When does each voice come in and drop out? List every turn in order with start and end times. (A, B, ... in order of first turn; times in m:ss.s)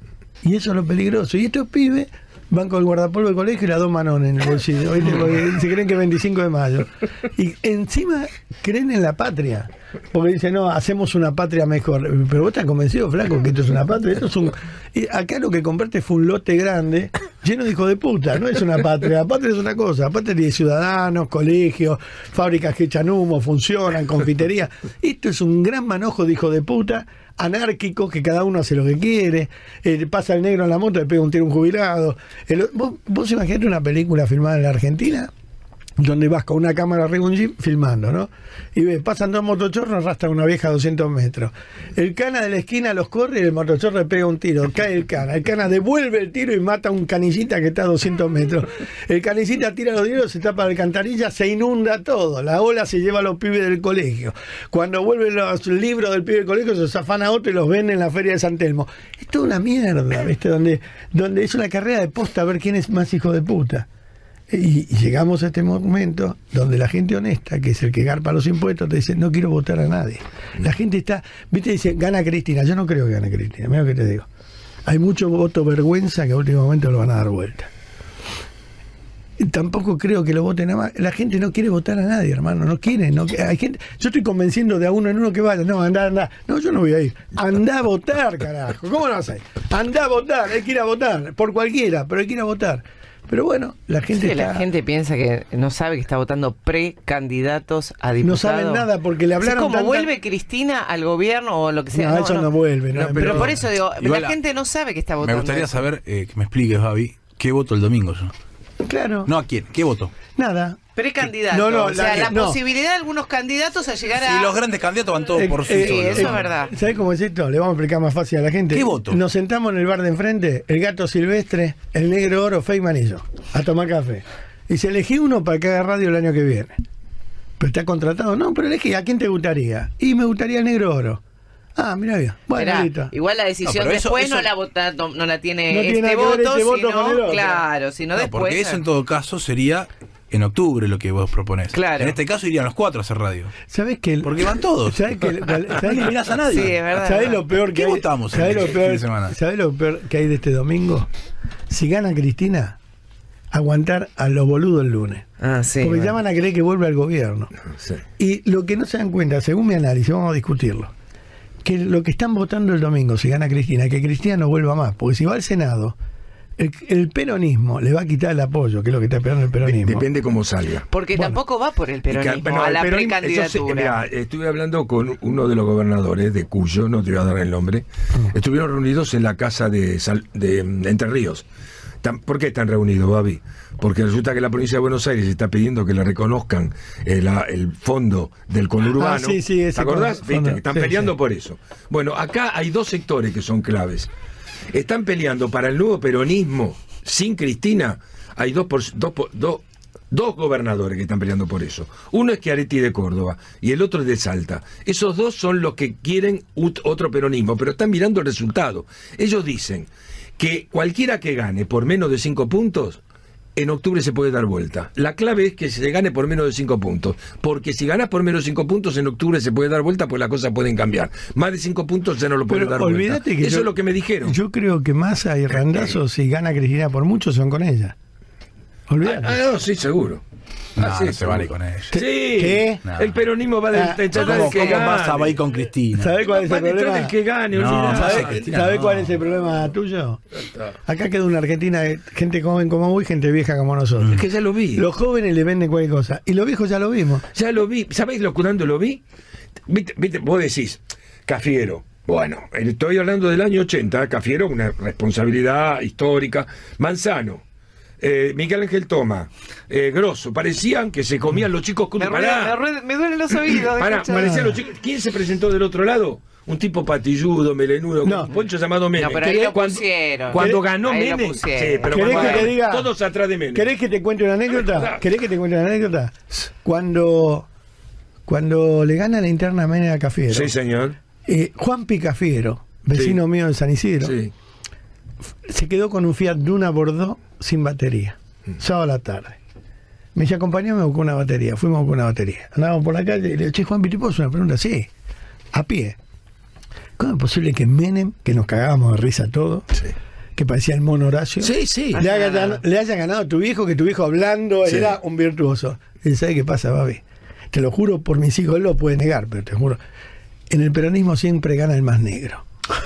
0:00.4-0:35.3 A
0:36.0-1:03.9 A
1:04.5-1:14.3 A
1:14.9-1:17.7 A
1:19.4-1:34.7 A
1:34.1-1:38.9 B
1:38.2-1:40.1 A
1:39.4-1:42.5 B
1:41.9-1:43.6 A
1:43.0-1:43.6 C
1:43.2-1:45.7 B
1:44.0-1:44.4 D
1:45.2-1:48.3 D
1:48.8-1:49.3 A
1:49.2-1:50.1 D
1:50.4-1:50.8 A
1:51.0-1:54.6 B
1:51.5-1:52.6 A
1:54.2-1:56.4 D
1:55.4-2:06.8 A
1:55.6-1:56.7 B
1:58.7-1:59.2 D
2:07.6-2:11.2 A
2:11.8-2:13.1 A
2:12.5-2:18.8 B
2:13.6-2:14.5 D
2:15.7-2:17.6 A
2:18.2-2:23.5 D
2:21.7-2:22.2 B
2:23.7-2:26.2 A
2:24.2-2:25.0 D
2:25.9-2:26.8 D
2:26.5-2:27.4 B
2:26.9-2:31.1 A
2:27.7-2:29.4 D
2:31.7-2:32.8 A
2:33.5-2:35.2 A
2:35.4-2:36.2 B
2:35.8-2:37.5 A
2:38.2-2:40.9 A
2:41.6-2:46.0 A
2:46.6-2:50.1 A
2:49.7-2:50.9 C
2:50.9-2:54.0 B
2:51.1-2:51.4 A
2:52.1-3:01.4 C
3:02.0-3:14.1 C
3:09.0-3:11.1 A
3:14.7-3:33.0 C
3:33.6-3:44.4 C
3:42.5-3:48.0 A
3:45.6-3:46.0 C
3:48.9-3:49.4 A
3:49.0-3:50.2 C
3:50.8-3:51.9 D
3:50.8-3:55.4 C
3:51.9-3:52.8 A
3:53.7-3:54.9 A
3:54.3-3:56.1 D
3:55.9-3:57.2 A
3:56.3-3:58.5 C
3:57.6-3:59.2 D
3:57.8-4:00.2 A
4:00.4-4:00.7 C
4:00.8-4:04.2 A
4:04.1-4:04.8 C
4:04.7-4:07.3 A
4:07.3-4:09.0 C
4:09.7-4:17.4 C
4:18.0-4:22.6 C
4:22.0-4:24.4 B
4:23.3-4:33.7 C
4:24.1-4:24.6 A
4:28.0-4:28.3 A
4:29.0-4:32.5 B
4:29.2-4:29.6 A
4:30.4-4:30.6 A
4:31.9-4:32.9 A
4:33.5-4:37.5 A
4:38.3-4:40.5 A
4:40.3-4:41.0 C
4:41.3-4:44.2 A
4:42.9-4:43.2 C
4:44.0-4:44.3 C
4:45.5-4:49.4 A
4:50.2-4:54.9 A
4:55.5-4:56.0 A
4:57.0-4:59.7 A
5:00.4-5:09.8 A
5:01.4-5:02.0 C
5:02.0-5:02.6 B
5:04.7-5:04.9 C
5:10.5-5:12.4 A